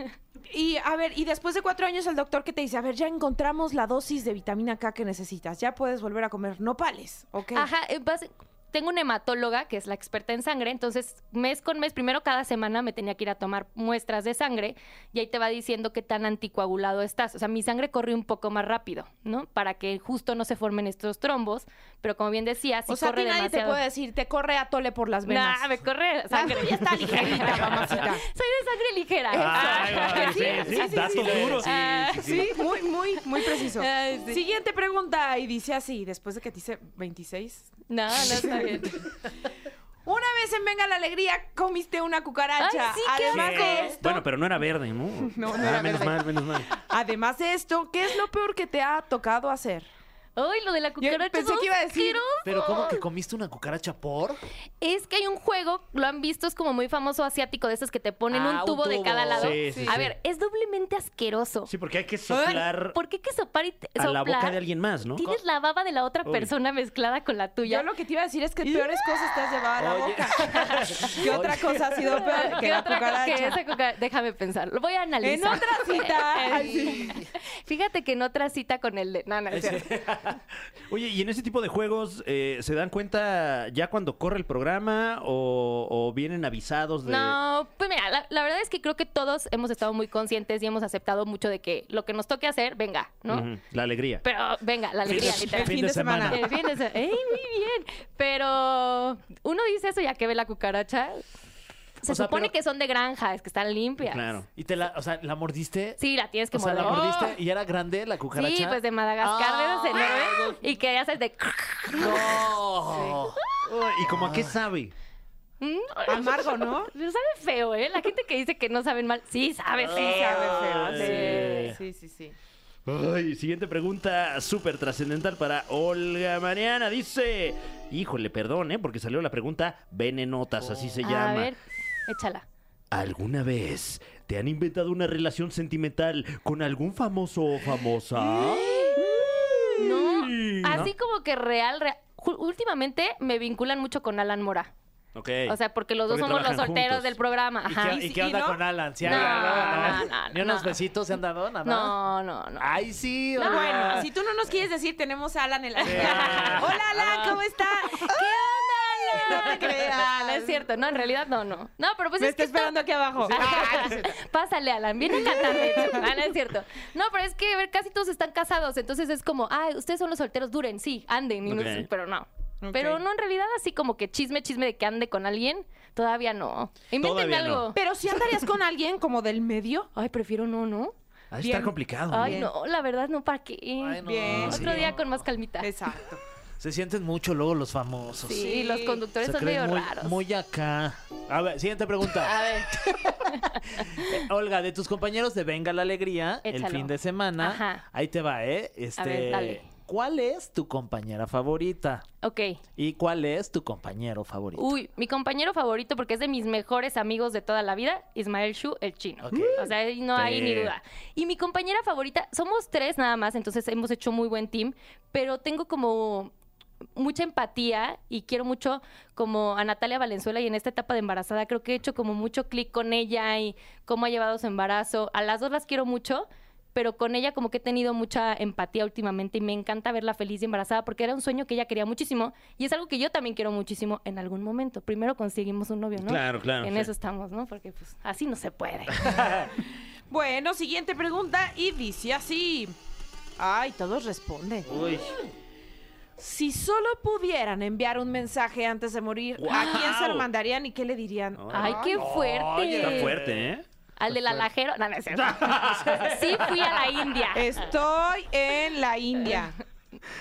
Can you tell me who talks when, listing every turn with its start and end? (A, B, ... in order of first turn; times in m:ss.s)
0:00.5-0:07.7 A
0:07.5-0:23.8 B
0:22.9-0:25.7 A
0:25.2-0:34.4 B
0:26.3-0:28.2 A
0:29.3-0:32.5 C
0:29.4-0:31.7 A
0:31.2-0:31.5 D
0:32.2-0:38.8 A
0:37.9-0:39.0 B
0:40.0-0:44.0 A
0:42.6-0:44.2 B
0:43.3-0:46.7 C
0:45.2-0:49.9 A
0:50.4-0:53.0 B
0:51.0-0:52.2 A
0:52.4-0:54.4 D
0:54.8-1:01.7 B
0:58.3-0:59.6 D
0:59.4-1:00.1 C
0:59.7-0:59.9 A
1:01.7-1:03.0 C
1:02.3-1:04.6 B
1:04.0-1:05.4 C
1:05.1-1:07.9 B
1:07.6-1:13.6 A
1:08.6-1:09.2 B
1:09.8-1:12.2 D
1:10.5-1:11.2 B
1:12.0-1:20.0 B
1:15.2-1:17.2 A
1:16.5-1:17.3 D
1:19.5-1:20.4 D
1:20.9-1:27.4 C
1:27.0-1:33.5 B
1:33.3-1:34.2 C
1:34.2-1:41.2 B
1:35.1-1:36.6 D
1:35.1-1:35.4 C
1:35.1-1:36.4 A
1:42.0-1:44.2 B
1:42.0-1:42.5 D
1:44.0-1:44.4 C
1:44.6-1:46.0 D
1:46.0-1:47.4 B
1:46.5-1:50.6 D
1:48.3-1:52.6 B
1:51.9-1:53.4 D
1:52.9-1:53.2 A
1:53.2-1:53.7 B
1:53.7-1:54.9 C
1:54.0-1:54.6 D
1:55.6-2:01.8 B
1:56.1-1:56.9 A
1:59.9-2:02.4 A
2:00.1-2:01.5 C
2:00.3-2:01.7 D
2:02.8-2:11.5 C
2:11.0-2:12.4 B
2:12.9-2:20.9 C
2:18.3-2:19.1 B
2:19.8-2:24.7 B
2:25.1-2:25.6 C
2:25.4-2:28.1 B
2:26.1-2:27.2 C
2:27.7-2:32.0 D
2:27.8-2:30.0 A
2:29.0-2:30.8 B
2:31.6-2:32.8 B
2:32.6-2:34.0 D
2:33.4-2:34.0 B
2:33.4-2:38.3 A
2:35.8-2:37.4 B
2:35.9-2:36.8 D
2:36.2-2:36.6 C
2:37.9-2:57.8 B
2:39.0-2:40.7 A
2:42.2-2:44.2 A
2:45.2-2:46.1 A
2:51.4-2:51.9 C
2:52.6-2:53.0 A
2:57.0-2:57.7 C
2:57.7-2:59.9 A
2:59.9-3:00.9 B
3:01.3-3:02.4 C
3:01.4-3:02.5 A
3:02.1-3:05.7 B
3:03.8-3:05.2 D
3:04.0-3:04.7 A
3:05.6-3:06.2 A
3:06.6-3:08.6 D
3:08.2-3:10.2 B
3:08.3-3:09.0 A
3:09.2-3:22.0 D
3:12.2-3:14.2 B
3:16.4-3:17.8 B
3:19.0-3:19.7 B
3:22.2-3:22.6 B
3:22.8-3:24.8 D
3:24.5-3:36.3 B
3:29.2-3:29.7 D
3:29.3-3:30.7 C
3:36.9-3:59.0 B
3:56.0-3:56.9 C
4:00.1-4:02.7 A
4:03.4-4:04.7 A
4:04.7-4:05.1 D
4:06.2-4:12.0 A
4:09.4-4:10.3 C
4:11.4-4:11.9 C
4:11.5-4:13.2 B
4:11.9-4:13.5 D
4:12.7-4:13.6 C
4:14.0-4:17.6 B
4:15.1-4:16.6 C
4:15.7-4:16.1 D
4:17.3-4:19.6 A